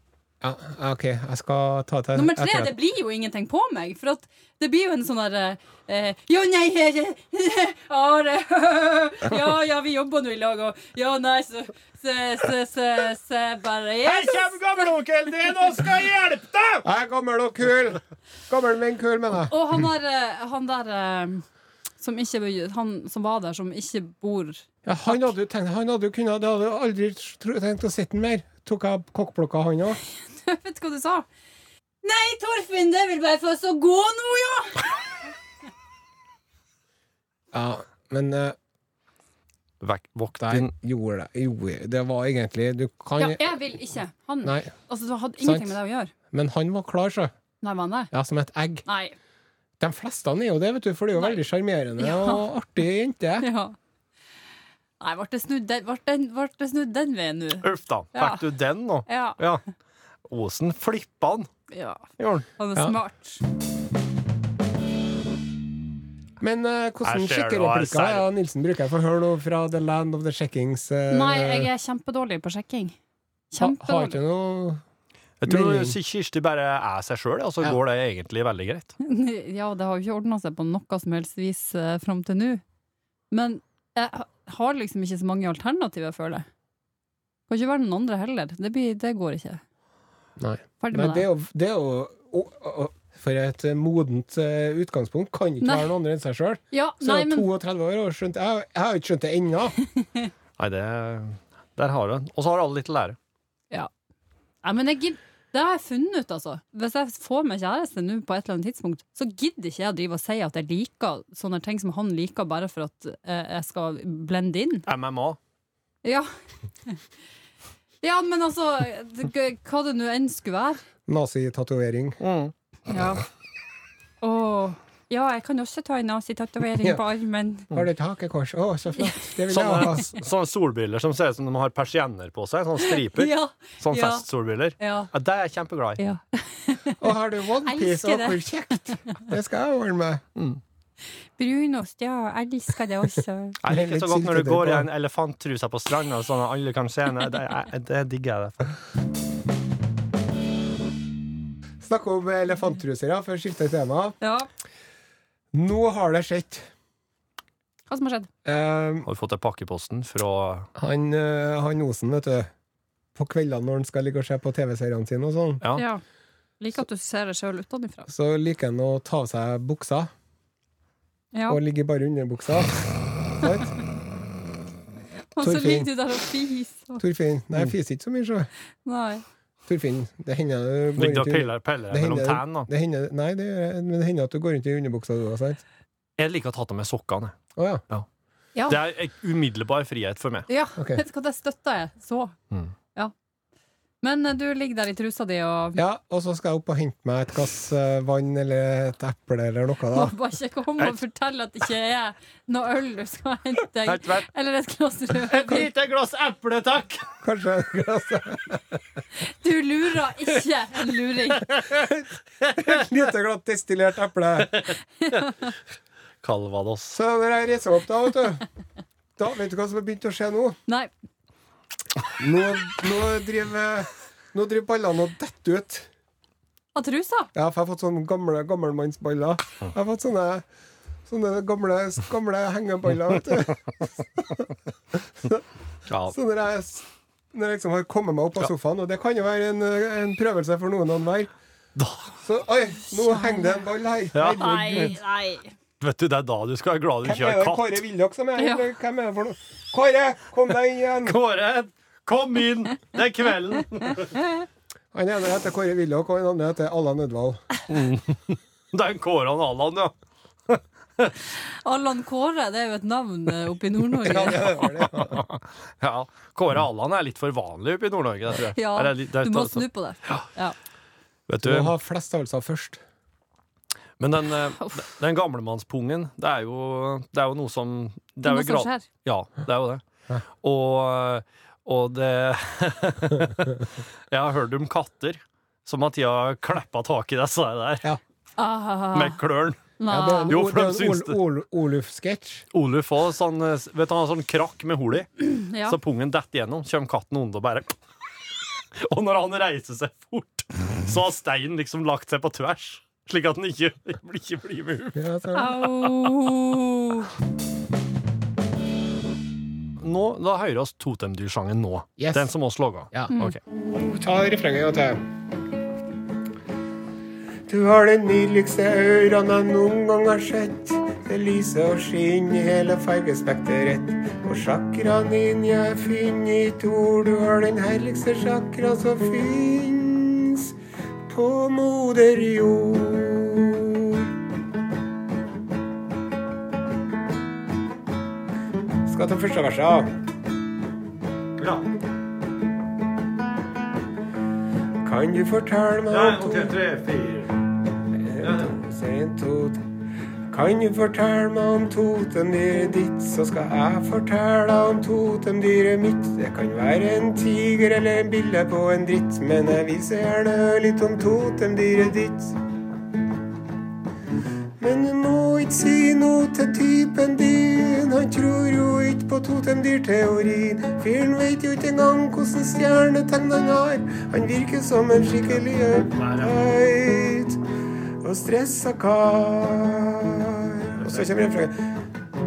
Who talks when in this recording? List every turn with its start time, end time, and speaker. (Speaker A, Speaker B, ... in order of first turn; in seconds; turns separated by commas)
Speaker A: 0.4-2.7, Speaker B: 2.1-14.8, Speaker C: 14.1-16.9, Speaker A: 16.8-19.5, Speaker B: 19.4-21.4, Speaker B: 22.0-25.2, Speaker A: 24.9-30.0, Speaker B: 30.3-31.3, Speaker B: 32.0-34.9, Speaker A: 37.5-38.6, Speaker C: 39.8-40.7, Speaker A: 40.4-43.4, Speaker B: 43.2-46.1, Speaker A: 44.4-44.7, Speaker A: 45.4-45.8, Speaker A: 46.3-47.3, Speaker B: 47.6-48.1, Speaker A: 48.1-48.8, Speaker B: 48.9-49.1, Speaker A: 49.8-53.5, Speaker B: 52.0-52.5, Speaker B: 53.4-53.8, Speaker B: 55.0-58.4, Speaker C: 57.6-59.6, Speaker B: 59.1-59.4, Speaker C: 60.3-61.5, Speaker B: 61.7-63.4, Speaker C: 62.2-62.5, Speaker A: 66.4-71.7, Speaker C: 67.0-68.3, Speaker B: 71.1-73.0, Speaker B: 73.5-74.2, Speaker A: 73.6-74.8, Speaker C: 75.4-78.9, Speaker A: 75.5-76.0, Speaker B: 79.0-82.6, Speaker B: 83.3-86.5, Speaker B: 87.5-89.6, Speaker A: 90.4-99.8, Speaker B: 90.8-91.3, Speaker B: 95.6-95.9, Speaker B: 96.7-97.5, Speaker C: 100.6-103.2, Speaker B: 104.6-114.9, Speaker C: 114.9-115.4, Speaker B: 116.0-116.3, Speaker B: 118.0-120.8, Speaker A: 121.1-122.2, Speaker C: 122.2-122.5, Speaker B: 122.9-123.2, Speaker B: 124.2-127.7, Speaker A: 127.7-130.1, Speaker B: 129.0-129.2, Speaker C: 129.5-136.0, Speaker B: 132.8-134.2, Speaker B: 134.8-135.1, Speaker B: 136.0-137.1, Speaker A: 137.0-140.2, Speaker B: 137.6-139.3, Speaker C: 140.4-140.6, Speaker B: 141.4-143.6, Speaker C: 143.6-148.8, Speaker A: 143.7-144.9, Speaker A: 151.8-154.2, Speaker B: 154.2-154.5, Speaker A: 155.5-156.7, Speaker B: 157.9-158.3, Speaker A: 158.4-159.1, Speaker C: 159.1-160.7, Speaker A: 160.8-162.5, Speaker A: 163.2-165.6, Speaker B: 165.8-166.0, Speaker B: 166.6-168.1, Speaker A: 168.1-170.1, Speaker B: 171.3-171.6, Speaker A: 171.5-173.8, Speaker B: 175.4-177.0, Speaker A: 175.4-175.9, Speaker A: 177.0-178.5, Speaker B: 178.8-179.2, Speaker A: 179.7-185.6, Speaker C: 181.0-182.7, Speaker C: 186.2-187.4, Speaker A: 187.6-187.8, Speaker C: 188.7-190.5, Speaker B: 190.5-192.4, Speaker B: 194.0-195.8, Speaker A: 195.8-200.1, Speaker B: 199.9-205.7, Speaker C: 203.8-204.3, Speaker C: 205.3-207.1, Speaker A: 207.2-208.8, Speaker B: 209.2-211.5, Speaker C: 211.5-211.8, Speaker A: 211.7-212.1, Speaker C: 212.4-212.9, Speaker A: 212.6-214.6, Speaker C: 214.4-215.3, Speaker B: 215.0-215.5, Speaker C: 216.2-217.0, Speaker A: 216.9-218.4, Speaker A: 219.2-220.6, Speaker A: 222.2-225.9, Speaker B: 226.8-227.3, Speaker A: 227.3-230.4, Speaker A: 231.1-235.4, Speaker C: 235.9-236.2, Speaker A: 236.1-241.3, Speaker C: 241.8-242.1, Speaker A: 242.2-245.0, Speaker B: 242.9-243.6, Speaker C: 244.1-245.0, Speaker B: 244.4-245.5, Speaker C: 245.8-247.8, Speaker A: 247.0-251.2, Speaker B: 248.4-248.7, Speaker C: 251.0-254.2, Speaker A: 254.9-257.4, Speaker C: 257.7-259.9, Speaker C: 260.5-261.1, Speaker B: 261.4-264.6, Speaker A: 264.0-265.2, Speaker C: 264.1-270.3, Speaker B: 268.5-270.6, Speaker C: 271.3-271.7, Speaker A: 271.4-272.8, Speaker C: 274.0-279.8, Speaker B: 278.2-278.9, Speaker C: 280.4-287.9, Speaker B: 288.4-289.2, Speaker C: 288.9-289.6, Speaker B: 289.8-290.3, Speaker A: 289.9-292.4, Speaker C: 290.3-291.2, Speaker C: 292.5-297.7, Speaker B: 295.3-295.8, Speaker C: 298.8-305.0, Speaker A: 304.9-305.6, Speaker B: 305.3-307.1, Speaker C: 309.8-313.4, Speaker A: 312.0-312.3, Speaker A: 312.9-315.0, Speaker A: 317.5-330.6, Speaker A: 331.1-334.1, Speaker A: 338.8-339.9, Speaker C: 341.4-341.6, Speaker A: 344.8-346.6, Speaker C: 345.9-347.3, Speaker A: 347.9-349.6, Speaker C: 348.2-348.5, Speaker A: 350.3-362.4, Speaker A: 364.6-377.4, Speaker C: 375.9-376.3, Speaker A: 378.0-381.6, Speaker C: 380.8-381.1